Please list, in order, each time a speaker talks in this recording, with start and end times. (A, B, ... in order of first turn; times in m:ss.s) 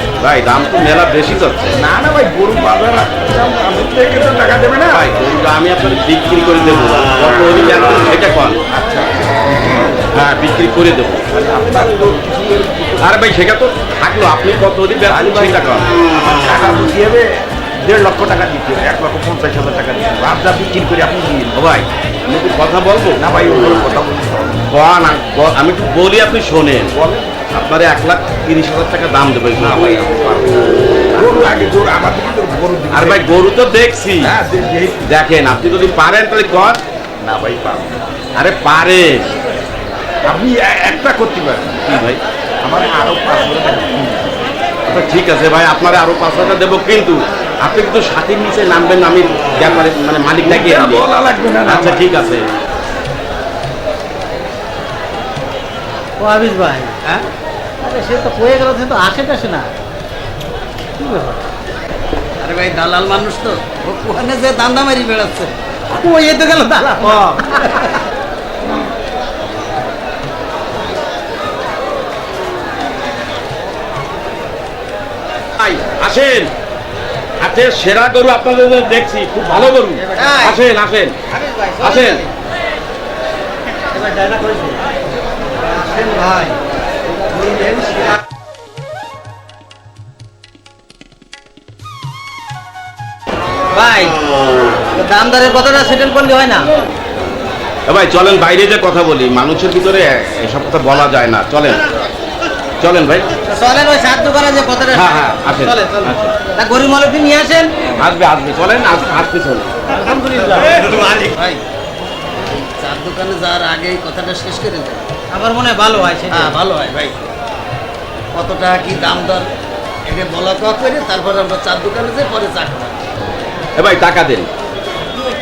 0:00.2-0:01.8 A
0:01.8-0:05.0 B
0:04.9-0:08.6 A
0:08.7-0:10.0 B
0:10.1-0:11.2 A
0:11.3-0:13.1 B
0:13.0-0:15.9 A
0:15.1-0:17.3 B
0:17.8-0:21.5 B
0:21.5-0:23.2 A
0:23.2-0:24.6 B
0:24.7-0:26.9 A
0:26.9-0:27.3 B
0:27.5-0:29.8 A
0:29.6-0:33.2 B
0:31.2-0:31.5 A
0:32.9-0:34.3 A
0:34.2-0:35.1 B
0:35.1-0:36.8 A
0:37.2-0:37.9 B
0:38.4-0:39.3 A
0:40.3-0:41.8 B
0:41.9-0:42.2 A
0:42.6-0:44.4 B
0:44.9-0:51.0 A
0:50.4-0:52.0 B
0:51.6-0:52.4 A
0:56.2-0:57.0 C
0:57.8-0:59.7 C
1:01.0-1:01.3 C
1:02.4-1:05.5 D
1:05.9-1:08.0 C
1:07.0-1:07.4 D
1:15.6-1:16.5 A
1:17.4-1:21.1 A
1:20.1-1:20.6 C
1:21.3-1:22.2 C
1:21.8-1:22.2 A
1:24.0-1:24.6 C
1:26.0-1:26.5 D
1:27.3-1:28.0 D
1:33.7-1:34.2 C
1:34.9-1:36.7 C
1:37.9-1:41.8 A
1:42.8-1:43.3 A
1:43.5-1:47.7 C
1:44.9-1:46.3 A
1:48.0-1:49.8 A
1:49.9-1:51.3 C
1:51.3-1:51.6 D
1:52.4-1:55.1 D
1:55.3-1:56.6 C
1:56.3-1:57.2 D
1:58.3-1:59.5 D
2:00.1-2:03.0 D
2:03.8-2:04.5 A